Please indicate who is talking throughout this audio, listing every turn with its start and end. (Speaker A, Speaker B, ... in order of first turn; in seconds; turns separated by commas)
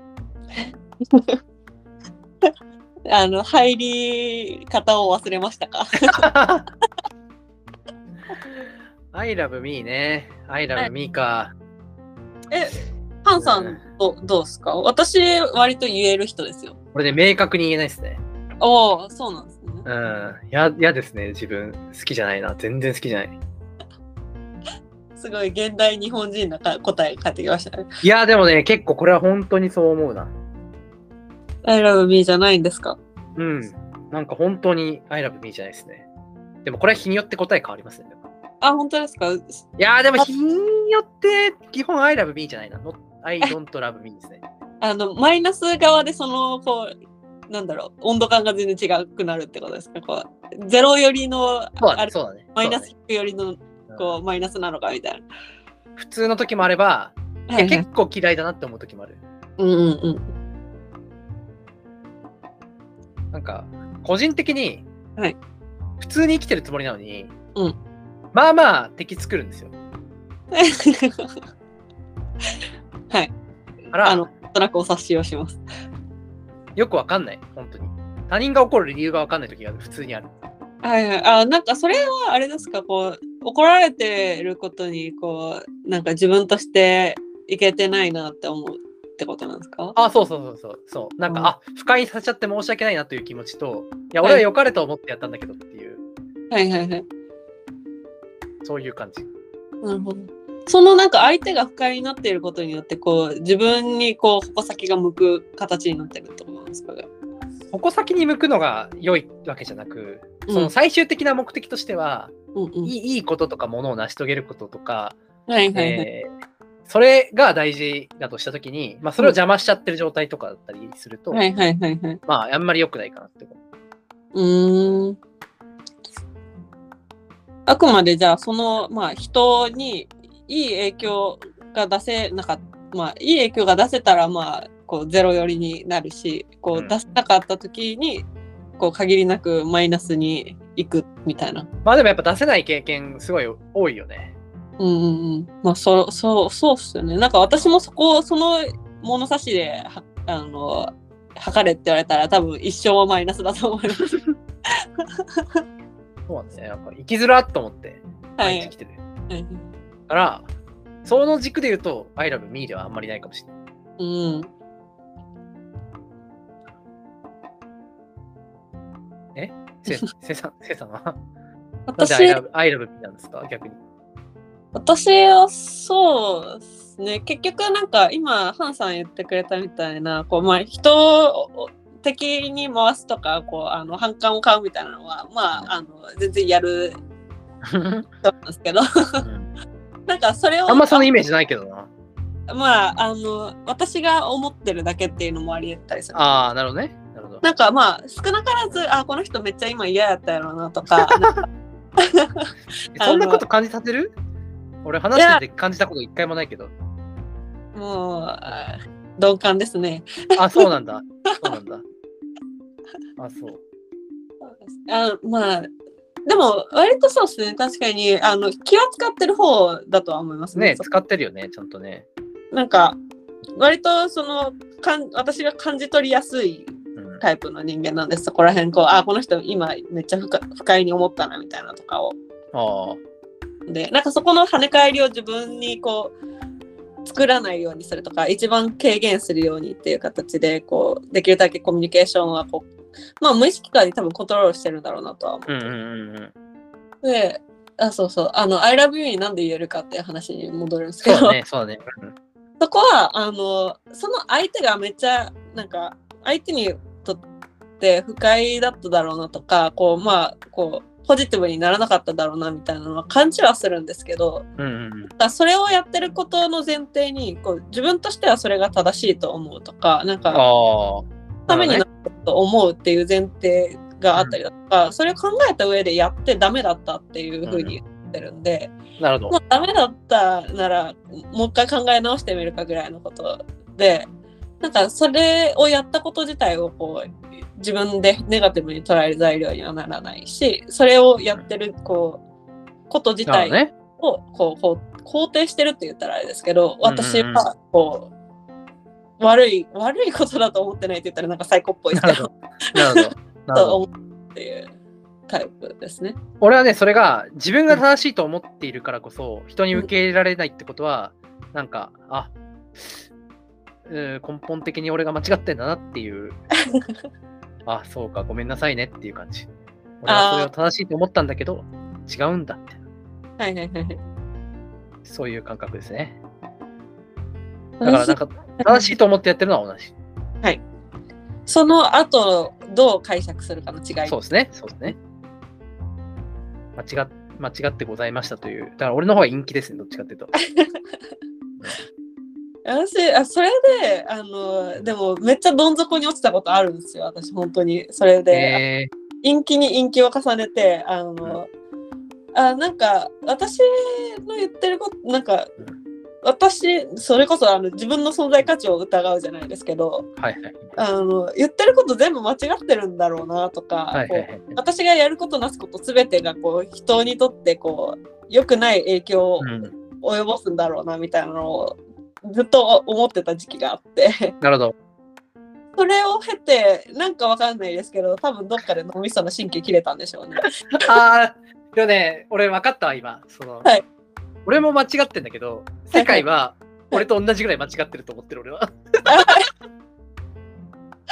Speaker A: 0.6-1.4, Speaker A: 3.1-6.3, Speaker B: 6.0-6.7, Speaker B: 9.1-11.5, Speaker A: 12.5-16.8, Speaker B: 13.4-13.8, Speaker B: 16.9-18.2, Speaker A: 18.6-19.8, Speaker B: 19.8-23.4, Speaker A: 25.2-27.9, Speaker B: 28.0-30.3, Speaker A: 31.6-33.0, Speaker B: 33.4-36.0, Speaker B: 36.6-38.2, Speaker A: 38.6-39.6, Speaker B: 39.8-44.4, Speaker A: 44.8-46.9, Speaker A: 47.5-55.2, Speaker B: 51.8-52.9, Speaker B: 53.9-54.2, Speaker B: 56.0-59.2, Speaker A: 57.5-57.9, Speaker A: 59.6-60.3, Speaker B: 63.3-64.8, Speaker B: 66.0-67.3, Speaker B: 68.3-69.7, Speaker A: 70.5-71.3, Speaker B: 73.9-74.3, Speaker A: 74.0-75.6, Speaker B: 76.8-80.3, Speaker A: 80.8-90.0, Speaker B: 90.0-96.0, Speaker A: 96.5-97.0, Speaker B: 98.6-99.3, Speaker A: 99.8-107.1, Speaker B: 107.7-112.3, Speaker A: 110.5-110.7, Speaker A: 112.5-112.9, Speaker B: 112.8-115.2, Speaker A: 115.5-116.0, Speaker B: 115.7-116.3, Speaker B: 116.9-121.4, Speaker A: 121.3-122.2, Speaker B: 122.2-123.6, Speaker A: 124.3-125.2, Speaker A: 127.7-138.2, Speaker A: 138.8-141.7, Speaker B: 141.8-144.3, Speaker A: 144.8-154.2, Speaker A: 155.0-155.4, Speaker B: 156.3-159.0, Speaker A: 158.4-158.7, Speaker A: 159.3-159.6, Speaker B: 160.1-160.4, Speaker B: 161.0-163.5, Speaker A: 164.0-164.5, Speaker B: 169.3-171.2, Speaker A: 171.9-172.4, Speaker B: 172.0-173.8, Speaker A: 174.7-187.0, Speaker B: 187.6-188.1, Speaker A: 188.2-189.2, Speaker B: 189.2-189.5, Speaker A: 190.1-191.1, Speaker B: 190.7-191.9, Speaker A: 192.5-196.4, Speaker B: 196.1-197.4, Speaker A: 197.4-201.4, Speaker B: 201.0-201.4, Speaker A: 202.0-203.4, Speaker B: 202.9-204.1, Speaker B: 204.8-206.7, Speaker A: 205.1-205.4, Speaker A: 207.7-210.7, Speaker B: 210.4-211.8, Speaker B: 213.2-213.6, Speaker A: 214.7-215.7, Speaker A: 216.3-220.8, Speaker B: 220.5-222.1, Speaker A: 222.5-223.0, Speaker A: 223.6-232.2, Speaker B: 226.9-227.2, Speaker B: 232.5-233.0, Speaker A: 233.7-236.1, Speaker A: 237.0-242.7, Speaker A: 243.2-245.6, Speaker B: 245.5-246.3, Speaker A: 247.0-251.3, Speaker B: 251.0-252.1, Speaker A: 252.6-257.2, Speaker A: 257.8-264.4, Speaker B: 264.6-265.1, Speaker A: 265.2-270.4, Speaker B: 270.3-271.8, Speaker A: 271.5-278.7, Speaker B: 277.4-277.7, Speaker B: 279.0-279.4, Speaker A: 279.3-284.1, Speaker A: 284.6-292.2, Speaker A: 292.9-298.1, Speaker B: 293.3-293.7, Speaker B: 296.8-297.5, Speaker A: 299.2-304.7, Speaker B: 301.9-303.8, Speaker A: 305.3-306.1, Speaker B: 306.4-313.0, Speaker B: 313.9-316.4, Speaker B: 317.6-319.5, Speaker B: 320.0-322.7, Speaker A: 320.1-320.5, Speaker A: 323.4-324.0, Speaker B: 325.0-326.2, Speaker A: 327.8-328.9, Speaker B: 327.8-329.9, Speaker A: 331.5-334.2, Speaker B: 334.1-334.9, Speaker B: 336.8-340.3, Speaker A: 342.6-348.6, Speaker B: 348.3-348.9, Speaker A: 349.2-351.5, Speaker A: 352.3-355.5, Speaker A: 356.2-360.1, Speaker B: 360.2-360.7, Speaker A: 360.8-374.3, Speaker B: 363.9-364.6, Speaker B: 369.4-369.7, Speaker B: 374.4-374.7, Speaker A: 375.8-380.9, Speaker B: 380.8-383.7, Speaker B: 384.4-389.4, Speaker A: 385.9-386.2, Speaker A: 389.1-389.5